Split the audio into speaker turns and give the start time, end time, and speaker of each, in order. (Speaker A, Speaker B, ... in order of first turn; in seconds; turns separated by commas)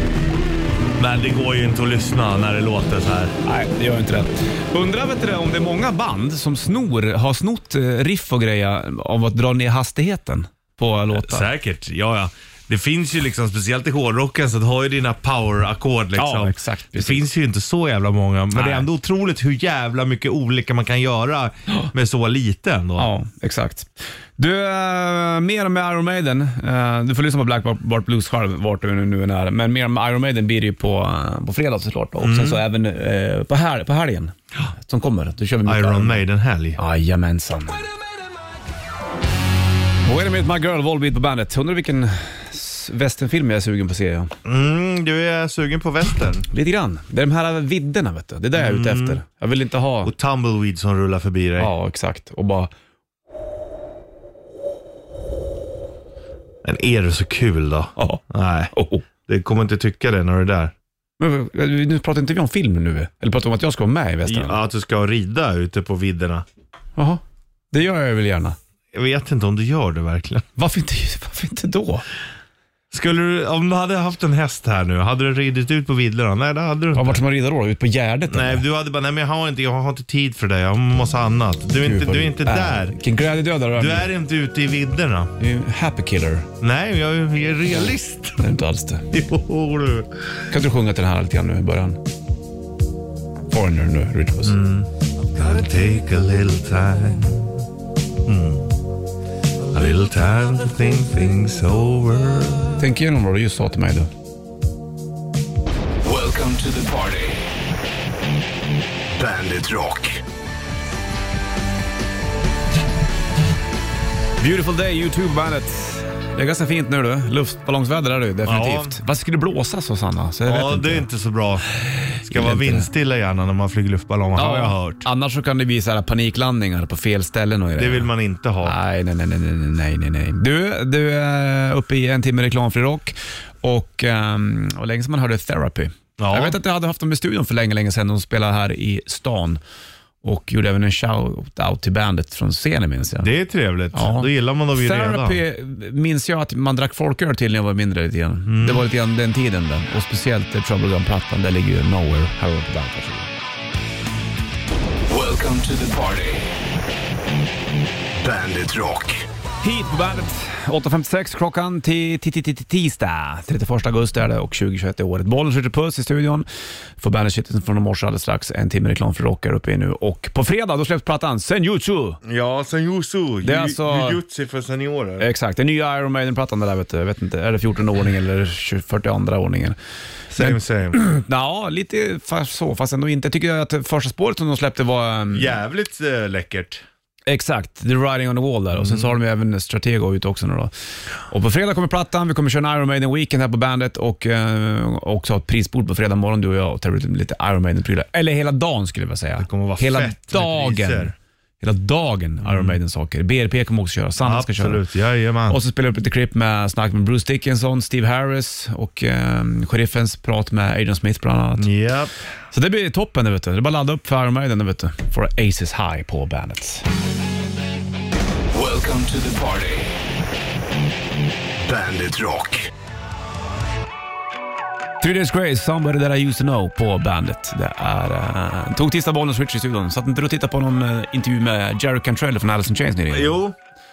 Speaker A: 1.0-3.3, Speaker B: 3.5-11.5, Speaker A: 11.1-23.1, Speaker B: 16.1-17.2, Speaker B: 18.5-18.9, Speaker B: 23.0-36.2, Speaker A: 32.2-32.6, Speaker A: 35.6-36.8, Speaker B: 36.8-37.9, Speaker B: 40.0-44.3, Speaker A: 44.5-46.5, Speaker B: 46.5-50.1, Speaker A: 48.5-49.2, Speaker A: 50.0-51.7, Speaker B: 51.6-52.7, Speaker A: 56.6-60.7, Speaker B: 58.0-59.1, Speaker B: 61.2-64.6, Speaker A: 64.2-66.5, Speaker B: 67.0-68.6, Speaker A: 68.9-70.5, Speaker B: 70.6-72.1, Speaker A: 72.9-77.2, Speaker B: 76.9-78.6, Speaker A: 78.3-83.0, Speaker B: 81.8-84.1, Speaker A: 83.8-85.3, Speaker B: 85.4-86.5, Speaker A: 86.6-88.4, Speaker B: 88.4-89.1, Speaker A: 89.1-90.1, Speaker B: 90.5-92.0, Speaker B: 93.5-94.6, Speaker A: 94.4-97.6, Speaker A: 98.2-98.7, Speaker A: 99.7-102.8, Speaker B: 102.8-104.1, Speaker C: 106.1-107.1, Speaker C: 109.2-110.1, Speaker B: 114.4-121.1, Speaker A: 118.4-119.0, Speaker A: 120.5-121.6, Speaker A: 122.2-125.0, Speaker B: 122.2-122.9, Speaker B: 124.4-128.1, Speaker A: 127.7-128.8, Speaker B: 128.6-139.6, Speaker A: 136.2-136.6, Speaker B: 140.2-143.3, Speaker A: 143.2-145.4, Speaker B: 143.9-153.4, Speaker A: 148.5-148.8, Speaker C: 155.2-156.2, Speaker C: 158.3-159.1, Speaker B: 159.6-166.5, Speaker B: 167.0-172.2, Speaker A: 172.2-175.3, Speaker B: 173.4-174.2, Speaker B: 175.2-179.8, Speaker A: 180.3-181.0, Speaker B: 180.4-185.5, Speaker A: 185.3-186.8, Speaker B: 187.3-190.7, Speaker A: 188.7-189.2, Speaker B: 191.3-204.8, Speaker A: 199.4-201.1, Speaker A: 202.4-202.8, Speaker A: 204.2-205.6, Speaker B: 205.5-211.7, Speaker A: 211.6-212.2, Speaker B: 212.5-216.8, Speaker C: 218.6-219.8, Speaker C: 221.7-222.7, Speaker B: 225.0-233.4, Speaker A: 233.1-233.6